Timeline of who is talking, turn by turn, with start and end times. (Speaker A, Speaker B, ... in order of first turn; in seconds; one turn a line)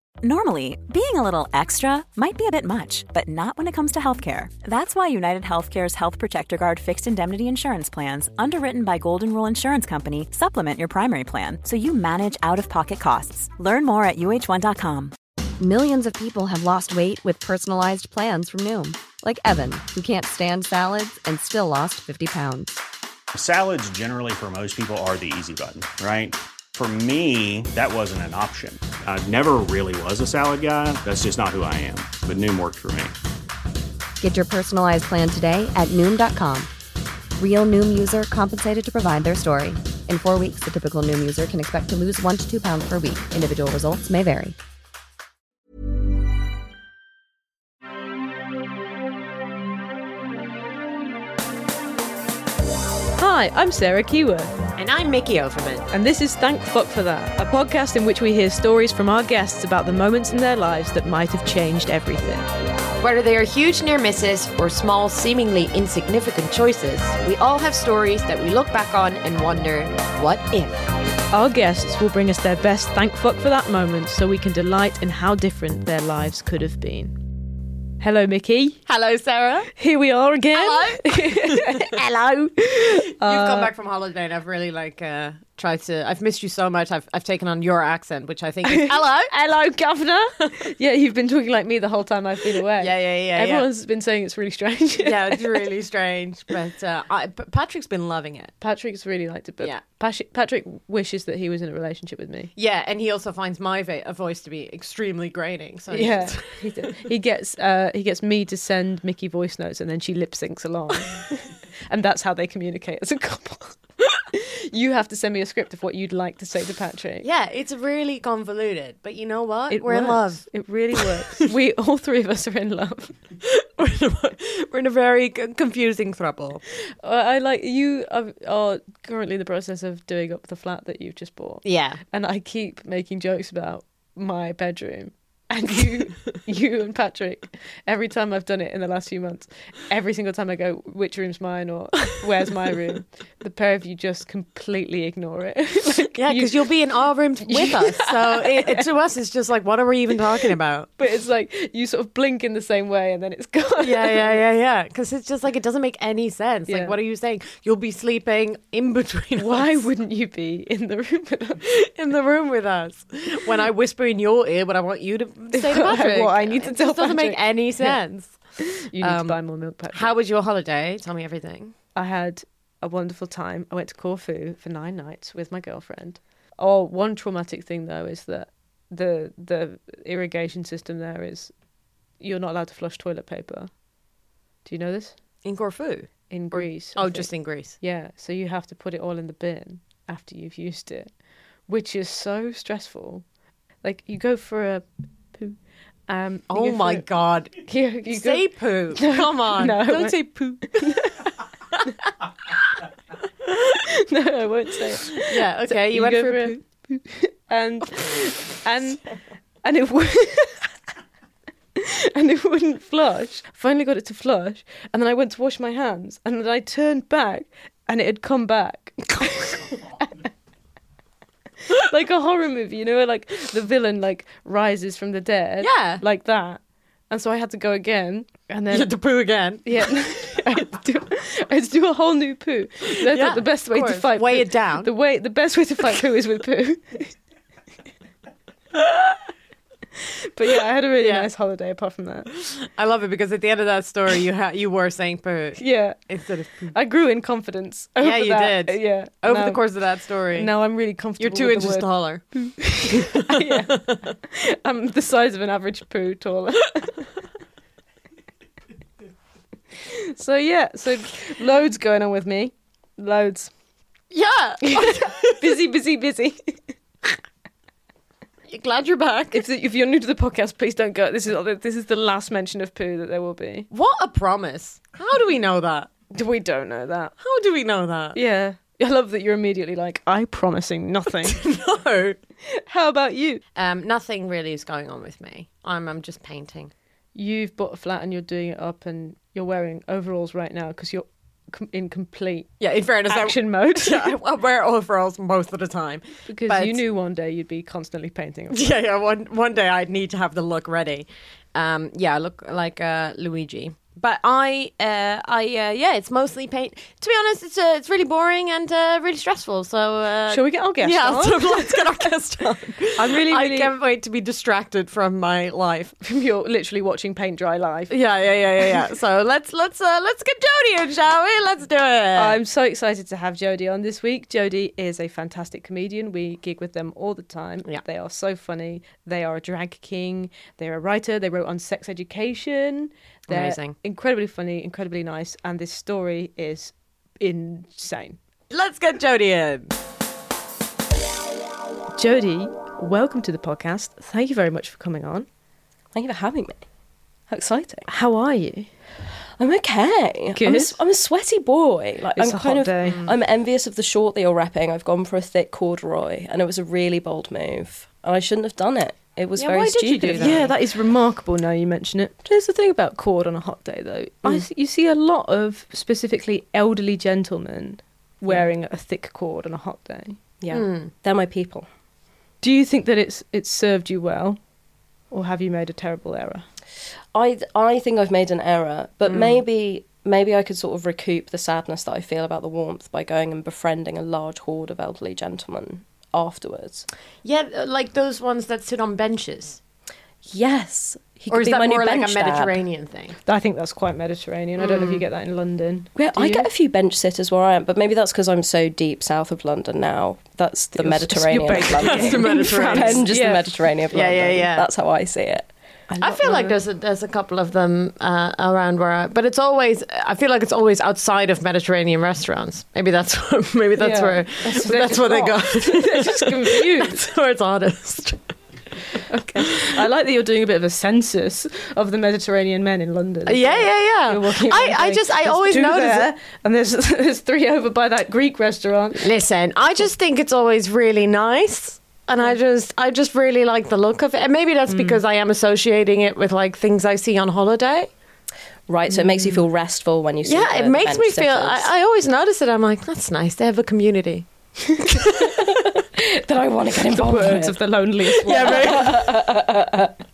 Speaker A: 0.2-15.1
Speaker B: 15.6-22.8
Speaker C: 23.3-33.1
Speaker B: 34.2-36.7
Speaker B: 37.3-44.5
Speaker D: 53.2-54.5
Speaker E: 54.8-55.9
Speaker D: 55.9-62.5
Speaker E: 63.0-70.8
Speaker D: 71.3-77.2
Speaker D: 78.0-78.8
Speaker E: 78.9-79.7
Speaker D: 79.8-83.7
Speaker E: 80.5-82.0
Speaker E: 83.1-89.3
Speaker D: 88.6-95.7
Speaker E: 92.7-93.7
Speaker E: 95.0-98.5
Speaker D: 98.6-102.5
Speaker E: 102.5-107.1
Speaker D: 105.9-117.3
Speaker E: 117.2-121.2
Speaker D: 119.7-123.2
Speaker E: 123.4-126.6
Speaker D: 127.0-146.7
Speaker E: 131.6-132.0
Speaker E: 146.1-150.9
Speaker D: 147.5-148.9
Speaker D: 151.0-154.4
Speaker E: 153.8-159.9
Speaker D: 156.7-156.9
Speaker D: 159.3-161.8
Speaker E: 161.6-168.4
Speaker D: 165.5-168.0
Speaker D: 168.6-170.2
Speaker E: 168.9-169.4
Speaker E: 169.9-171.8
Speaker D: 171.9-181.5
Speaker D: 182.2-183.7
Speaker D: 184.6-185.2
Speaker E: 185.4-187.8
Speaker D: 186.3-191.1
Speaker D: 191.7-193.2
Speaker D: 193.8-201.3
Speaker E: 196.5-201.1
Speaker D: 203.4-209.1
Speaker E: 205.2-206.6
Speaker D: 209.6-210.7
Speaker D: 211.8-220.2
Speaker D: 221.7-228.9
Speaker E: 225.6-226.0
Speaker E: 228.7-229.7
Speaker D: 229.6-237.1
Speaker E: 233.0-234.9
Speaker D: 240.2-242.4
Speaker E: 241.0-241.3
Speaker E: 242.6-246.8
Speaker D: 245.6-246.1
Speaker D: 246.7-249.7
Speaker E: 248.0-250.5
Speaker D: 250.3-257.1
Speaker E: 251.2-252.2
Speaker E: 252.8-254.0
Speaker D: 259.9-263.5
Speaker E: 264.1-265.5
Speaker D: 264.6-266.6
Speaker E: 268.5-269.4
Speaker D: 269.3-273.7
Speaker E: 273.7-275.9
Speaker D: 276.1-277.1
Speaker E: 277.2-278.2
Speaker D: 278.1-281.4
Speaker E: 281.2-282.2
Speaker D: 282.5-283.4
Speaker E: 283.5-286.7
Speaker D: 287.1-294.1
Speaker E: 292.6-296.8
Speaker D: 296.3-298.8
Speaker E: 298.5-315.9
Speaker D: 310.3-312.1
Speaker D: 312.9-313.7
Speaker D: 316.0-317.9
Speaker E: 317.9-322.4
Speaker D: 322.1-338.2
Speaker E: 333.3-333.8
Speaker E: 338.5-339.7
Speaker D: 341.9-345.3
Speaker F: 345.9-346.6
Speaker F: 347.3-347.9
Speaker D: 347.9-348.7
Speaker F: 349.4-360.5
Speaker D: 350.3-350.8
Speaker D: 352.1-353.1
Speaker E: 352.9-353.1
Speaker E: 359.4-360.5
Speaker D: 360.1-370.2
Speaker F: 370.4-371.7
Speaker E: 370.5-370.9
Speaker D: 372.4-374.4
Speaker D: 375.1-376.5
Speaker F: 377.1-386.9
Speaker E: 379.1-379.4
Speaker E: 387.2-389.6
Speaker F: 390.2-392.6
Speaker E: 391.3-393.2
Speaker D: 393.2-396.5
Speaker E: 394.6-395.0
Speaker F: 395.9-405.5
Speaker D: 400.8-403.6
Speaker E: 401.7-403.1
Speaker E: 403.9-404.7
Speaker D: 405.9-406.6
Speaker E: 406.0-418.2
Speaker D: 413.8-417.1
Speaker D: 419.1-429.1
Speaker E: 423.2-426.1
Speaker E: 428.9-437.9
Speaker D: 434.7-435.0
Speaker F: 438.7-441.7
Speaker D: 439.1-439.4
Speaker E: 440.2-444.3
Speaker E: 444.8-445.1
Speaker F: 445.0-447.6
Speaker D: 446.7-449.1
Speaker E: 448.2-449.1
Speaker F: 448.2-449.9